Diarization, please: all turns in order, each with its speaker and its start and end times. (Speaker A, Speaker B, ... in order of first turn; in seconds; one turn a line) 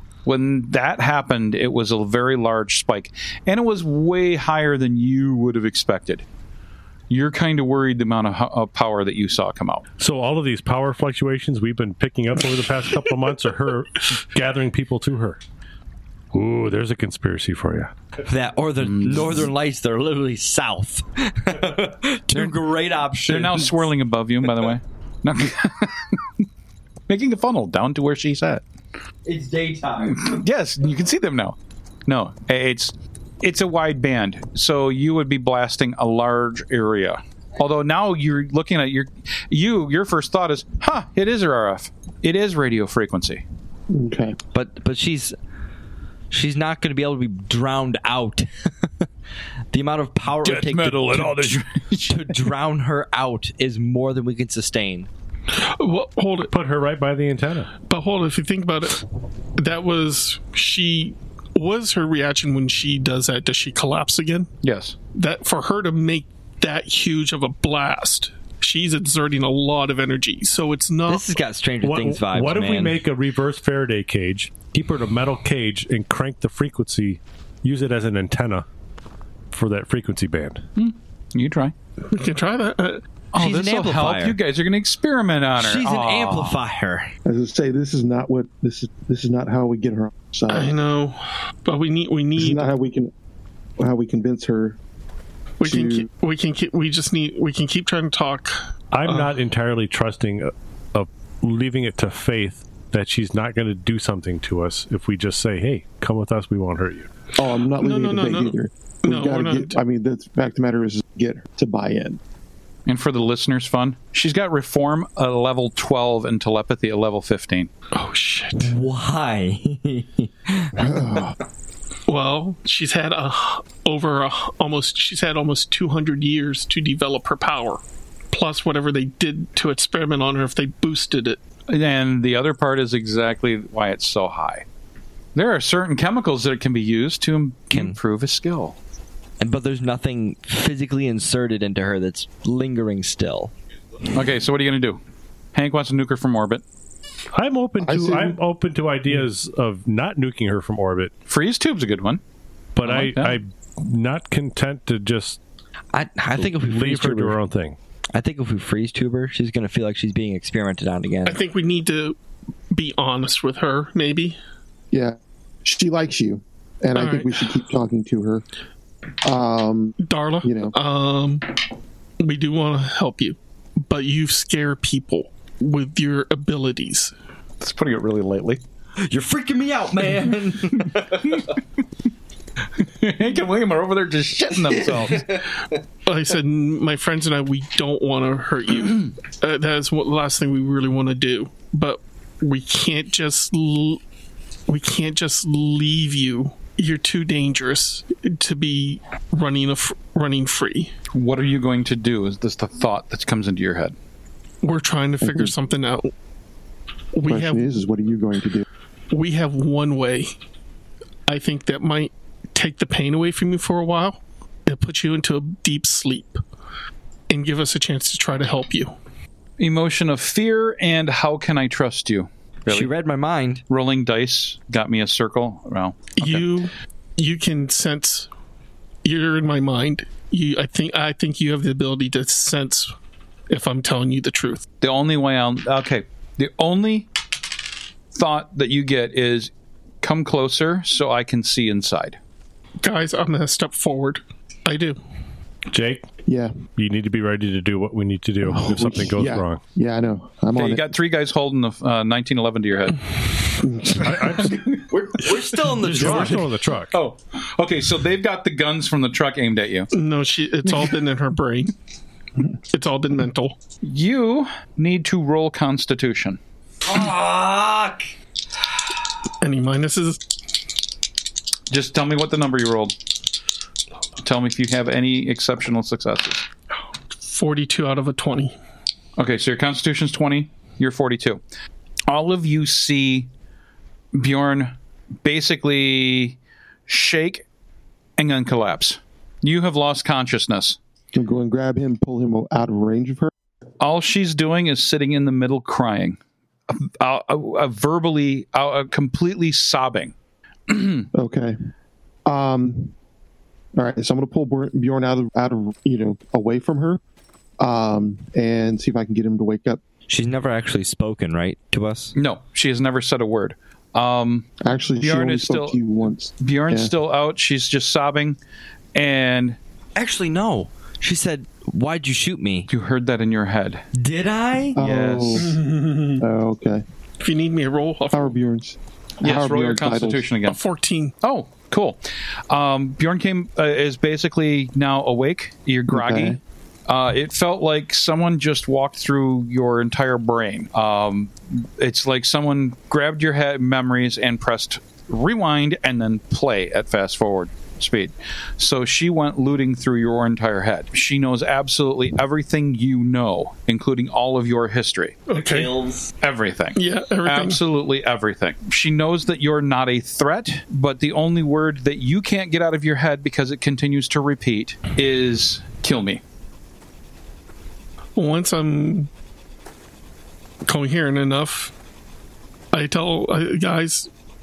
Speaker A: 0.2-6.2
Speaker A: 7.1-9.8
Speaker B: 10.0-15.4
Speaker B: 16.3-17.9
Speaker C: 18.2-23.8
Speaker A: 18.8-19.5
Speaker A: 23.2-26.2
Speaker A: 27.1-28.6
Speaker C: 29.2-30.4
Speaker A: 30.0-31.6
Speaker A: 32.1-43.4
Speaker D: 43.9-44.4
Speaker C: 44.5-45.4
Speaker C: 46.3-49.0
Speaker C: 49.7-51.5
Speaker A: 50.4-52.4
Speaker C: 52.1-55.1
Speaker E: 55.5-56.5
Speaker B: 56.5-57.7
Speaker E: 57.8-59.0
Speaker E: 59.6-64.5
Speaker A: 64.6-64.9
Speaker E: 65.1-71.2
Speaker C: 71.0-73.0
Speaker B: 71.8-78.7
Speaker B: 79.5-80.6
Speaker A: 80.8-81.7
Speaker E: 82.1-83.0
Speaker A: 83.3-86.6
Speaker C: 83.3-84.4
Speaker C: 85.6-87.1
Speaker D: 87.2-90.7
Speaker E: 90.5-92.7
Speaker D: 92.3-93.1
Speaker D: 93.8-94.8
Speaker E: 95.6-99.3
Speaker D: 95.6-96.1
Speaker B: 98.9-107.1
Speaker D: 107.4-112.2
Speaker E: 107.7-109.8
Speaker A: 112.9-117.7
Speaker E: 117.9-118.7
Speaker C: 118.6-120.8
Speaker D: 120.8-121.3
Speaker E: 122.1-127.8
Speaker E: 128.3-131.4
Speaker A: 131.7-134.7
Speaker A: 135.3-138.8
Speaker C: 139.4-143.5
Speaker A: 144.1-145.0
Speaker A: 145.5-146.6
Speaker B: 147.3-151.1
Speaker D: 147.8-148.4
Speaker A: 151.3-152.2
Speaker B: 152.8-155.4
Speaker A: 152.8-153.4
Speaker C: 155.9-157.4
Speaker B: 156.4-157.8
Speaker C: 158.1-161.4
Speaker E: 161.2-162.2
Speaker E: 162.7-164.4
Speaker D: 164.9-168.4
Speaker E: 166.9-167.5
Speaker D: 169.2-170.7
Speaker E: 170.0-171.4
Speaker E: 172.2-177.1
Speaker A: 177.6-178.6
Speaker C: 179.0-181.3
Speaker A: 180.8-181.4
Speaker A: 182.8-185.3
Speaker E: 186.1-194.0
Speaker E: 194.7-200.9
Speaker A: 201.1-203.9
Speaker E: 204.6-206.1
Speaker D: 205.2-205.5
Speaker E: 207.1-207.7
Speaker D: 207.3-208.6
Speaker E: 209.1-210.3
Speaker E: 211.3-216.4
Speaker E: 217.3-218.9
Speaker A: 219.6-222.9
Speaker C: 222.7-223.6
Speaker A: 223.7-226.5
Speaker E: 226.2-228.3
Speaker E: 229.0-232.9
Speaker E: 233.5-234.6
Speaker A: 234.8-237.1
Speaker A: 238.1-239.5
Speaker A: 240.0-242.2
Speaker E: 242.8-245.0
Speaker B: 245.7-246.1
Speaker D: 246.2-246.5
Speaker B: 246.7-249.6
Speaker D: 248.4-250.9
Speaker A: 250.5-253.0
Speaker D: 253.6-254.4
Speaker B: 254.0-254.5
Speaker A: 254.4-254.9
Speaker C: 254.9-256.5
Speaker B: 255.8-256.9
Speaker A: 256.9-259.9
Speaker E: 259.9-261.7
Speaker E: 262.7-263.6
Speaker A: 263.8-266.4
Speaker C: 266.9-268.0
Speaker E: 269.4-270.2
Speaker A: 271.7-272.9
Speaker A: 274.2-276.4
Speaker E: 277.2-278.5
Speaker A: 279.2-281.4
Speaker A: 282.1-283.3
Speaker A: 284.1-284.7
Speaker A: 285.2-287.4
Speaker A: 288.2-290.8
Speaker D: 291.1-293.3
Speaker A: 293.8-300.1
Speaker A: 300.7-301.1
Speaker D: 301.1-301.5
Speaker D: 302.3-302.9
Speaker D: 303.8-307.0
Speaker D: 307.6-309.8
Speaker C: 310.1-312.1
Speaker A: 312.1-315.8
Speaker D: 314.6-316.9
Speaker A: 316.4-318.4
Speaker A: 318.9-319.6
Speaker C: 319.9-322.7
Speaker A: 322.7-323.8
Speaker C: 323.9-324.8
Speaker A: 324.8-325.5
Speaker D: 324.8-325.6
Speaker E: 325.4-326.2
Speaker D: 326.2-326.8
Speaker E: 327.2-328.4
Speaker D: 328.1-330.3
Speaker A: 329.2-330.6
Speaker E: 330.4-331.1
Speaker A: 331.2-332.0
Speaker A: 332.5-355.2
Speaker D: 335.9-336.4
Speaker E: 355.3-355.7
Speaker C: 355.3-356.1
Speaker A: 356.2-366.2
Speaker E: 356.7-357.6
Speaker E: 368.1-369.1
Speaker E: 370.6-371.7
Speaker E: 372.7-374.1